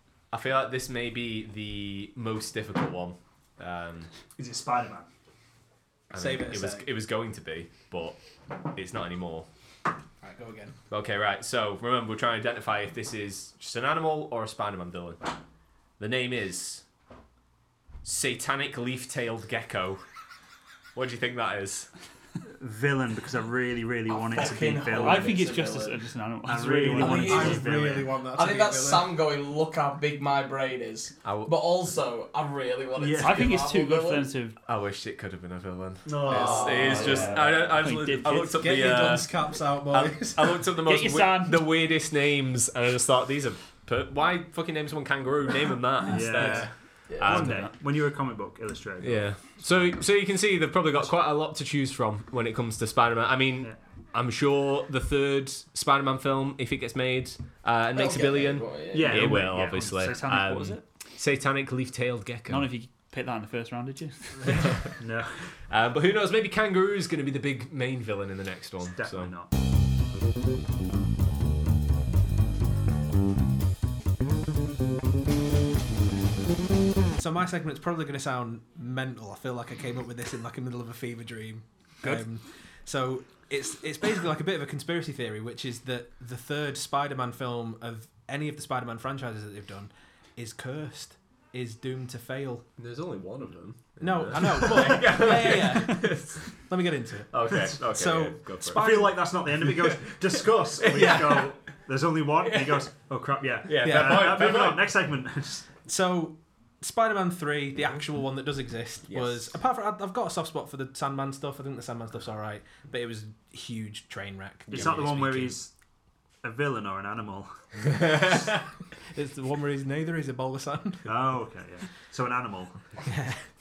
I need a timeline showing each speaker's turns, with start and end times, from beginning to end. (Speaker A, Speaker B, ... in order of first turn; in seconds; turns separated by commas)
Speaker A: 0.3-4.1, Speaker B: 4.4-5.1, Speaker A: 6.1-8.2, Speaker C: 6.1-6.9, Speaker A: 8.7-9.5, Speaker C: 10.2-10.8, Speaker A: 10.9-15.3, Speaker A: 16.0-16.8, Speaker A: 18.0-20.0, Speaker A: 20.9-21.9, Speaker B: 22.6-25.5, Speaker D: 24.1-26.1, Speaker E: 25.0-27.6, Speaker B: 26.5-28.2, Speaker C: 26.9-29.2, Speaker D: 28.3-34.3, Speaker A: 31.2-31.6, Speaker B: 33.0-33.6, Speaker E: 33.2-34.6, Speaker A: 34.6-47.7, Speaker B: 36.1-37.7, Speaker D: 36.3-37.4, Speaker E: 37.0-38.6, Speaker C: 37.1-37.4, Speaker C: 38.5-40.7, Speaker E: 40.9-41.7, Speaker B: 46.1-50.0, Speaker E: 47.3-47.8, Speaker A: 49.0-62.7, Speaker D: 57.9-59.2, Speaker B: 58.9-60.5, Speaker E: 59.4-60.8, Speaker E: 62.5-64.7, Speaker A: 64.6-64.9, Speaker B: 65.0-65.4, Speaker A: 65.7-69.3, Speaker B: 69.0-69.5, Speaker C: 77.2-92.7, Speaker A: 92.8-96.5, Speaker C: 94.0-99.1, Speaker A: 97.3-101.4, Speaker B: 98.7-105.7, Speaker C: 100.9-101.5, Speaker A: 102.4-102.9, Speaker A: 103.7-104.9, Speaker C: 103.8-104.4, Speaker C: 105.8-115.6, Speaker A: 109.1-109.5, Speaker B: 114.7-115.7, Speaker B: 116.4-117.5, Speaker C: 119.1-121.1, Speaker B: 121.1-122.8, Speaker C: 123.0-123.4